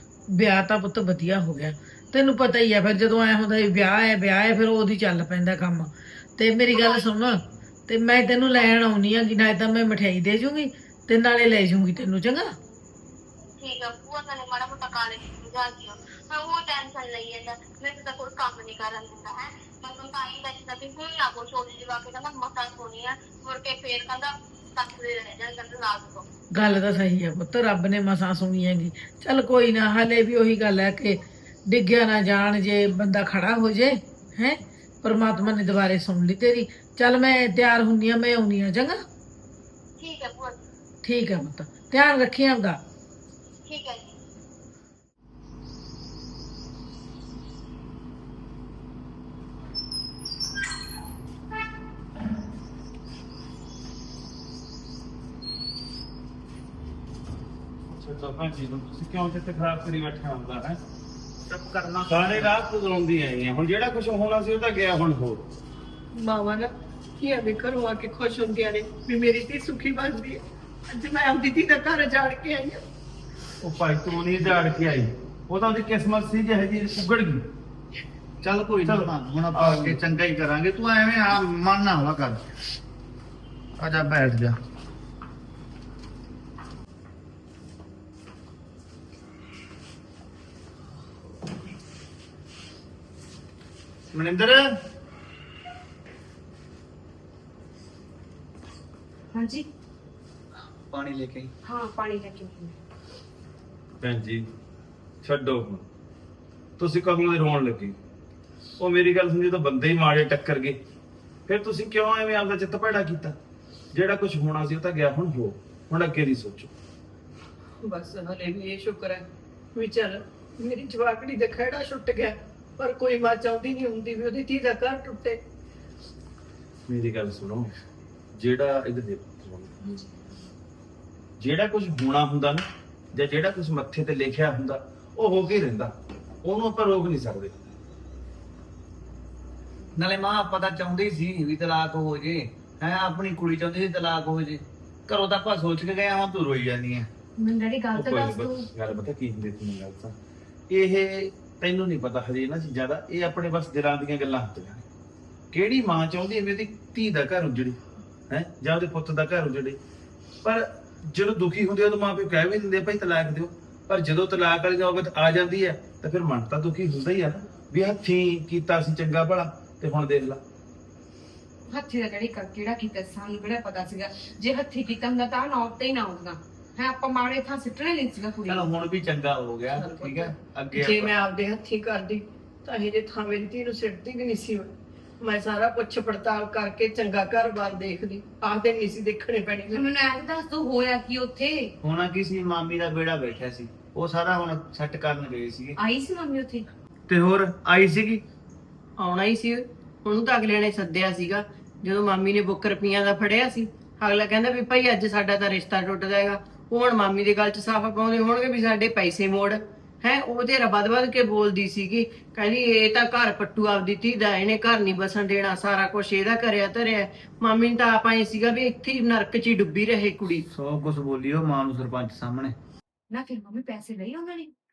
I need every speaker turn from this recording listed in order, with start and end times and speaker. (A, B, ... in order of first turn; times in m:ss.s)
0:00.3-0:12.5 A
0:06.7-0:07.4 B
0:13.6-0:26.2 B
0:26.5-0:39.0 A
0:40.0-0:40.6 B
0:41.0-0:42.8 A
0:43.7-0:44.2 B
0:57.9-1:00.8 C
1:01.5-1:02.5 D
1:02.1-1:05.4 C
1:06.2-1:12.8 E
1:13.6-1:17.4 C
1:18.4-1:22.4 D
1:18.8-1:20.0 C
1:23.8-1:24.6 D
1:34.1-1:34.7 D
1:39.3-1:39.7 F
1:40.9-1:41.5 D
1:41.6-1:42.8 F
1:44.0-1:44.5 C
1:45.2-1:45.8 C
1:46.8-1:48.0 C
1:48.8-1:50.8 C
1:51.5-1:53.4 C
1:53.9-1:56.7 C
1:57.8-2:05.4 E
2:06.9-2:07.7 C
2:08.3-2:09.7 C
2:09.8-2:10.4 F
2:11.4-2:15.9 C
2:16.4-2:17.7 C
2:20.0-2:27.1 D
2:27.4-2:28.7 F
2:27.9-2:30.2 C
2:30.7-2:34.8 C
2:35.5-2:37.8 C
2:38.3-2:39.8 C
2:40.4-2:50.4 C
2:51.7-2:58.7 F
2:58.5-3:01.1 D
2:59.7-3:09.8 E
3:09.7-3:11.7 F
3:11.8-3:15.8 D
3:15.8-3:16.7 F
3:17.1-3:18.2 D
3:19.0-3:40.4 E
3:40.5-3:42.6 D
3:43.1-3:44.5 F